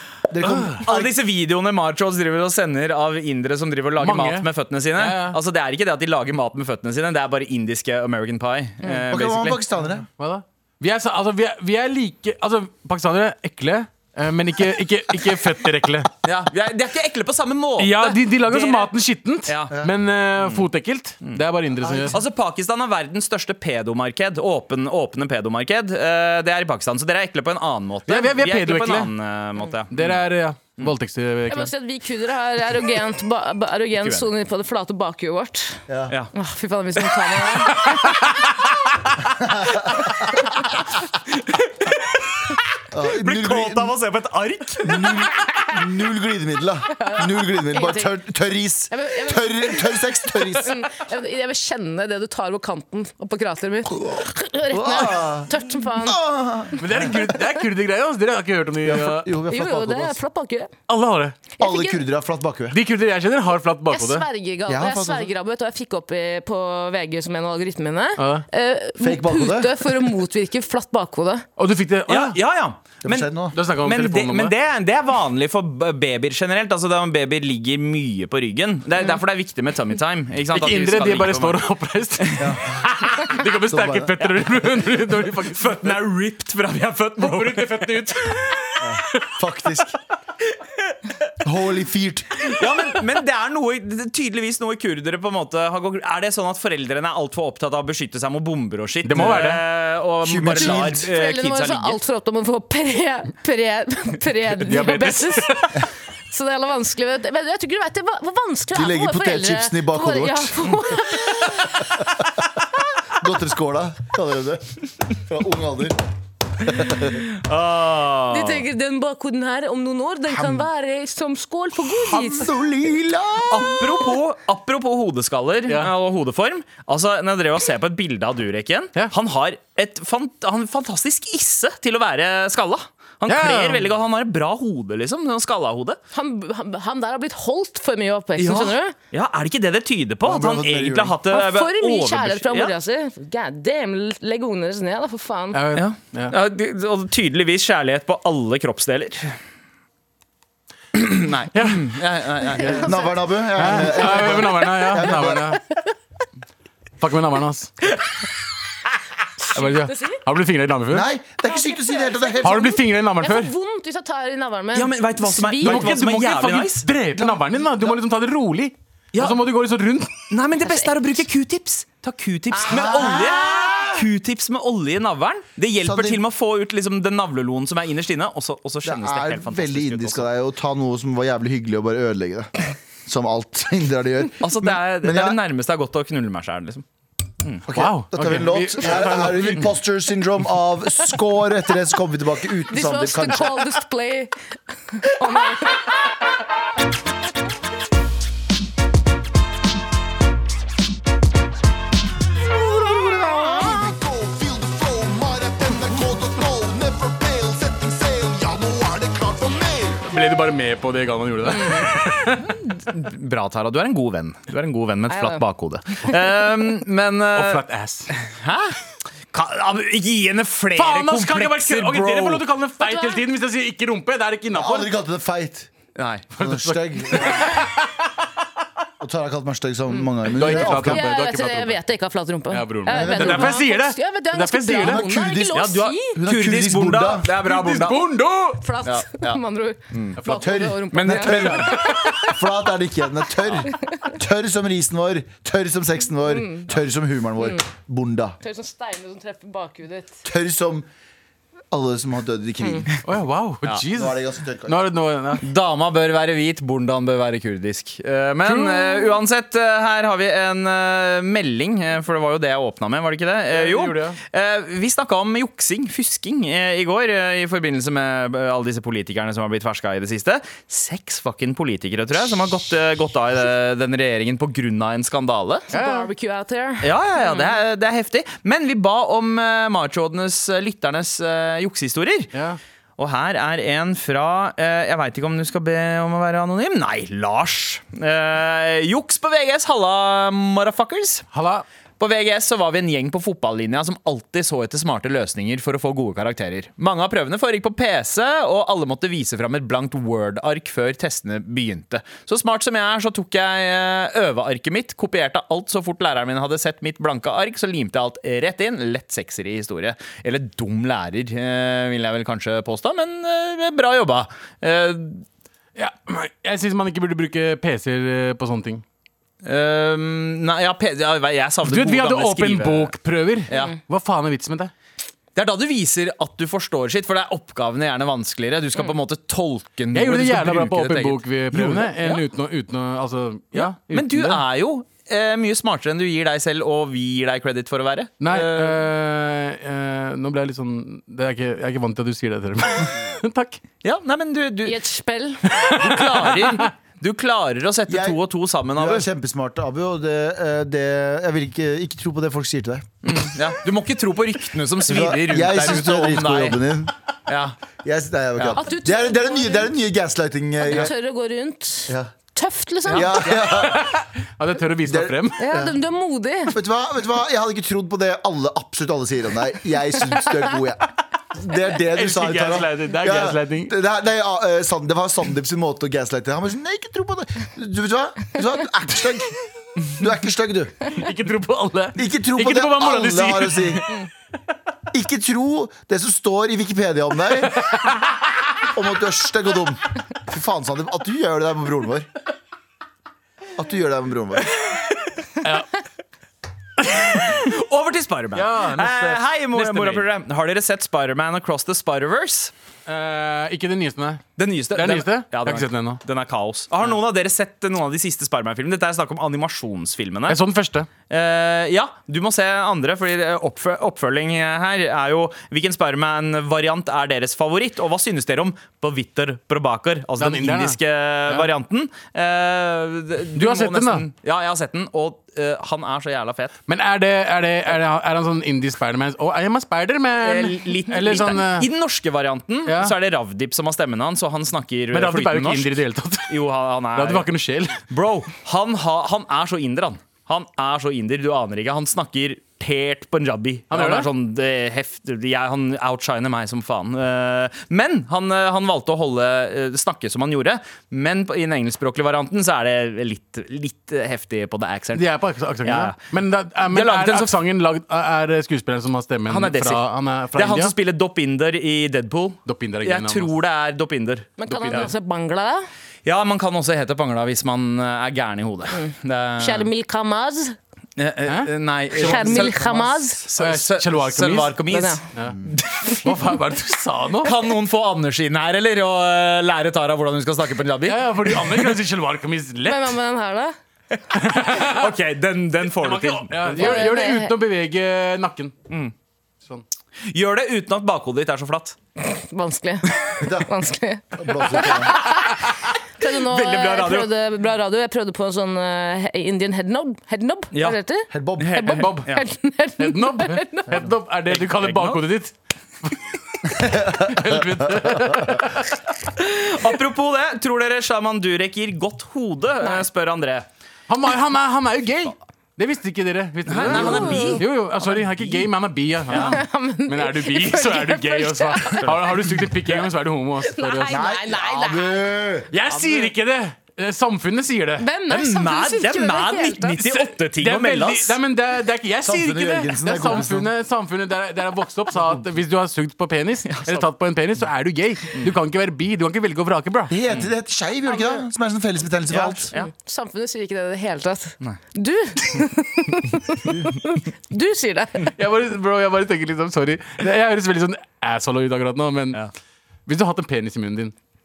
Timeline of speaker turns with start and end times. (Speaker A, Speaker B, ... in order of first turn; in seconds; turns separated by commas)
Speaker A: 0.3-1.1, Speaker B: 0.4-0.8, Speaker C: 0.8-9.6, Speaker B: 4.0-5.4, Speaker A: 9.1-10.1, Speaker B: 10.2-16.1, Speaker C: 16.2-18.9, Speaker B: 17.8-22.2, Speaker C: 19.4-19.7, Speaker C: 20.4-20.7, Speaker C: 22.1-30.2, Speaker B: 28.1-29.1, Speaker B: 29.9-31.7, Speaker D: 31.5-35.8, Speaker C: 34.0-34.3, Speaker A: 35.9-36.1, Speaker D: 36.3-38.1, Speaker A: 39.4-40.1, Speaker C: 41.5-42.1, Speaker A: 42.9-44.0, Speaker C: 43.2-45.2, Speaker A: 44.8-50.9, Speaker D: 46.9-48.1, Speaker D: 48.9-56.2, Speaker A: 53.9-57.2, Speaker B: 56.8-59.3, Speaker A: 58.8-60.2, Speaker D: 59.5-60.7, Speaker B: 60.9-61.4, Speaker D: 61.6-62.0, Speaker A: 61.6-62.8, Speaker B: 62.7-64.2, Speaker D: 63.9-71.4, Speaker A: 64.7-65.3, Speaker B: 68.2-68.4, Speaker A: 69.0-69.9, Speaker B: 71.6-72.4, Speaker C: 72.1-81.7, Speaker A: 73.0-73.5, Speaker B: 73.5-74.5, Speaker B: 80.5-85.9, Speaker C: 82.2-82.5, Speaker A: 82.4-82.9, Speaker A: 83.6-84.2, Speaker C: 85.5-88.2, Speaker B: 87.2-89.3, Speaker A: 88.8-90.0, Speaker A: 91.4-92.5, Speaker C: 92.5-102.0, Speaker B: 99.0-99.6, Speaker A: 100.2-101.1, Speaker D: 100.6-111.9, Speaker B: 104.5-105.8, Speaker A: 108.7-110.8, Speaker A: 112.0-112.2, Speaker A: 113.1-116.0, Speaker A: 116.6-117.2, Speaker C: 117.3-118.6, Speaker D: 118.3-122.5, Speaker A: 120.3-120.7, Speaker A: 121.9-123.9, Speaker C: 123.5-136.0, Speaker B: 133.3-133.9, Speaker D: 136.1-138.9, Speaker C: 138.4-142.7, Speaker A: 140.2-141.2, Speaker D: 141.3-145.6, Speaker B: 145.5-146.3, Speaker C: 145.7-149.3, Speaker C: 150.9-152.9, Speaker B: 151.5-151.9, Speaker D: 152.6-153.1, Speaker A: 152.7-155.6, Speaker B: 153.6-155.6, Speaker B: 157.0-157.7, Speaker D: 159.4-160.2, Speaker B: 159.5-161.1, Speaker A: 160.9-162.8, Speaker D: 161.5-165.9, Speaker B: 162.4-163.5, Speaker C: 164.7-166.9, Speaker B: 165.6-170.2, Speaker A: 167.1-168.0, Speaker C: 169.1-169.4, Speaker C: 170.3-180.2, Speaker D: 172.5-173.5, Speaker A: 172.7-174.1, Speaker A: 175.8-176.2, Speaker A: 178.8-185.4, Speaker C: 184.4-186.8, Speaker A: 187.7-193.8, Speaker B: 187.7-189.7, Speaker D: 192.7-194.3, Speaker D: 194.9-196.0, Speaker A: 203.5-210.1, Speaker B: 210.1-212.5, Speaker D: 211.5-211.8, Speaker C: 212.4-217.6, Speaker D: 215.1-215.4, Speaker B: 217.3-218.1, Speaker C: 218.2-218.8, Speaker C: 219.3-222.4, Speaker B: 220.8-224.9, Speaker D: 222.8-223.2, Speaker A: 224.5-225.7, Speaker C: 225.9-226.3, Speaker B: 226.3-227.9, Speaker A: 226.4-227.5, Speaker A: 229.0-231.0, Speaker D: 230.0-236.2, Speaker B: 230.2-231.8, Speaker B: 232.5-235.0, Speaker A: 232.9-233.6, Speaker A: 234.8-237.3, Speaker C: 235.5-238.1, Speaker B: 237.4-238.6, Speaker D: 238.6-242.3, Speaker C: 238.8-239.4, Speaker C: 239.9-240.2, Speaker B: 240.2-242.3, Speaker A: 240.2-248.4, Speaker D: 246.2-246.7, Speaker D: 248.4-250.2, Speaker A: 250.2-250.8, Speaker A: 251.7-252.9, Speaker B: 253.0-255.4, Speaker A: 253.9-254.8, Speaker C: 255.4-275.7, Speaker B: 258.4-259.2, Speaker B: 263.5-264.2, Speaker D: 275.7-277.5, Speaker B: 275.7-276.1, Speaker C: 276.8-282.3, Speaker B: 282.3-282.6, Speaker C: 283.0-291.3, Speaker B: 291.3-291.6, Speaker C: 292.0-315.2, Speaker B: 315.8-318.8, Speaker C: 319.4-322.9, Speaker B: 321.6-324.7, Speaker C: 323.5-323.7, Speaker C: 325.4-332.2, Speaker B: 329.9-334.4, Speaker C: 333.5-338.8, Speaker B: 338.2-343.6, Speaker C: 343.8-344.8, Speaker D: 344.6-345.5, Speaker B: 345.5-346.7, Speaker C: 345.7-349.1, Speaker A: 347.9-348.2, Speaker A: 348.7-352.9, Speaker C: 353.0-356.6, Speaker A: 354.9-356.9, Speaker C: 357.3-357.6, Speaker A: 357.8-360.9, Speaker D: 358.6-359.7, Speaker D: 360.6-363.2, Speaker A: 362.9-363.9, Speaker B: 362.9-365.4, Speaker A: 364.8-365.8, Speaker D: 365.4-366.5, Speaker A: 366.5-379.3, Speaker B: 371.9-373.7, Speaker A: 379.9-380.8, Speaker B: 380.9-384.0, Speaker A: 381.9-383.8, Speaker A: 384.9-387.6, Speaker B: 387.6-387.9, Speaker A: 388.7-392.1, Speaker A: 393.5-394.5, Speaker B: 395.4-395.7, Speaker C: 396.9-402.5, Speaker B: 398.3-400.1, Speaker B: 402.9-404.2, Speaker C: 404.4-410.4, Speaker B: 404.7-406.0, Speaker B: 410.3-410.9, Speaker C: 411.1-426.6, Speaker B: 420.2-420.8, Speaker B: 423.3-424.0, Speaker B: 426.7-431.7, Speaker C: 430.2-435.8, Speaker B: 432.6-432.9, Speaker B: 434.9-436.4, Speaker C: 436.3-437.3, Speaker B: 436.9-437.8, Speaker C: 437.9-456.0, Speaker B: 443.7-444.1, Speaker B: 454.9-460.7, Speaker C: 456.6-457.4, Speaker C: 459.3-464.9, Speaker B: 462.4-463.3, Speaker D: 464.4-465.6, Speaker B: 464.4-464.9, Speaker C: 466.0-469.7, Speaker D: 468.7-470.6, Speaker C: 471.0-476.2, Speaker B: 471.3-472.6, Speaker D: 472.0-473.2, Speaker B: 473.3-474.6, Speaker D: 474.7-475.0, Speaker B: 476.0-477.3, Speaker C: 477.2-481.8, Speaker B: 480.9-482.9, Speaker D: 482.6-483.5, Speaker B: 484.1-484.9, Speaker C: 484.5-487.1, Speaker B: 485.7-488.5, Speaker D: 486.6-487.4, Speaker C: 490.1-491.8, Speaker D: 492.0-495.5, Speaker A: 493.2-493.5, Speaker A: 494.1-495.0, Speaker D: 496.0-503.9, Speaker C: 496.0-497.1, Speaker A: 501.1-501.6, Speaker C: 501.4-502.2, Speaker B: 501.7-502.0, Speaker B: 502.8-508.8, Speaker C: 504.3-505.0, Speaker A: 506.6-508.2, Speaker C: 509.2-513.5, Speaker B: 513.9-524.0, Speaker C: 516.5-518.5, Speaker D: 516.7-517.4, Speaker C: 519.1-519.4, Speaker D: 519.1-521.9, Speaker C: 521.8-522.8, Speaker D: 523.4-525.0, Speaker A: 523.9-525.5, Speaker B: 525.5-527.9, Speaker C: 525.7-526.1, Speaker D: 527.8-529.8, Speaker C: 528.1-531.2, Speaker B: 529.8-539.9, Speaker A: 532.0-533.5, Speaker C: 536.5-536.9, Speaker A: 539.9-542.5, Speaker D: 540.9-541.2, Speaker C: 542.1-542.7, Speaker D: 542.5-548.1, Speaker B: 548.1-552.2, Speaker B: 552.9-553.9